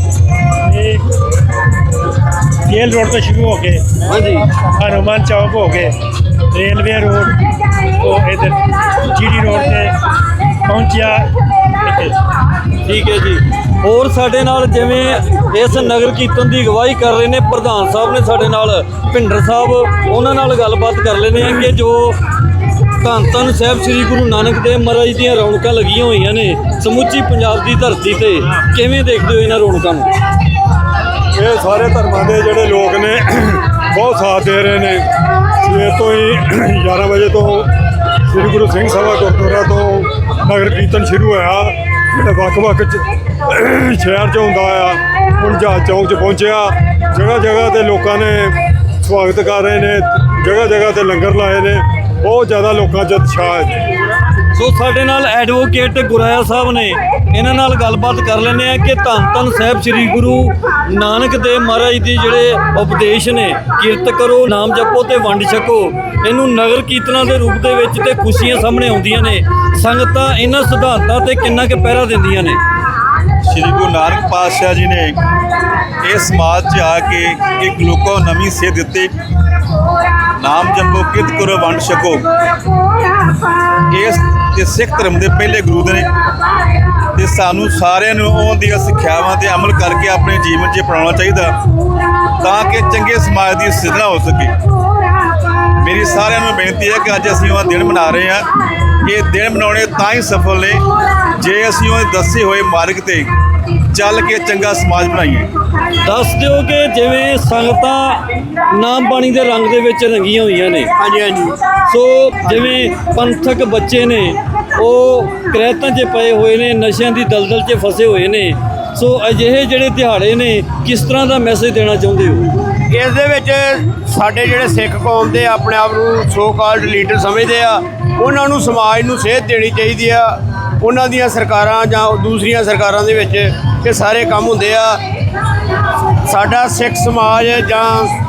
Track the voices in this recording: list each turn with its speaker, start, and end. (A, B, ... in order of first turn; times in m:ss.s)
0:00.6-0:01.1 A
0:02.7-0:03.9 A
0:04.0-0:04.5 B
0:04.7-0:06.0 A
0:06.5-0:10.0 A
0:10.6-0:12.2 A
0:12.8-0:22.2 B
0:23.0-0:30.1 B
0:31.3-0:37.7 C
0:38.3-0:53.9 C
0:54.5-1:12.6 B
1:13.4-1:15.2 D
1:16.0-1:19.1 D
1:20.4-1:22.3 D
1:23.9-1:26.1 D
1:27.1-1:31.6 D
1:32.4-1:34.6 D
1:35.8-1:38.5 D
1:39.0-1:43.3 D
1:43.9-1:45.5 D
1:46.0-1:50.9 B
1:51.0-1:51.6 E
1:51.8-2:02.5 B
2:02.9-2:15.0 E
2:16.2-2:18.1 E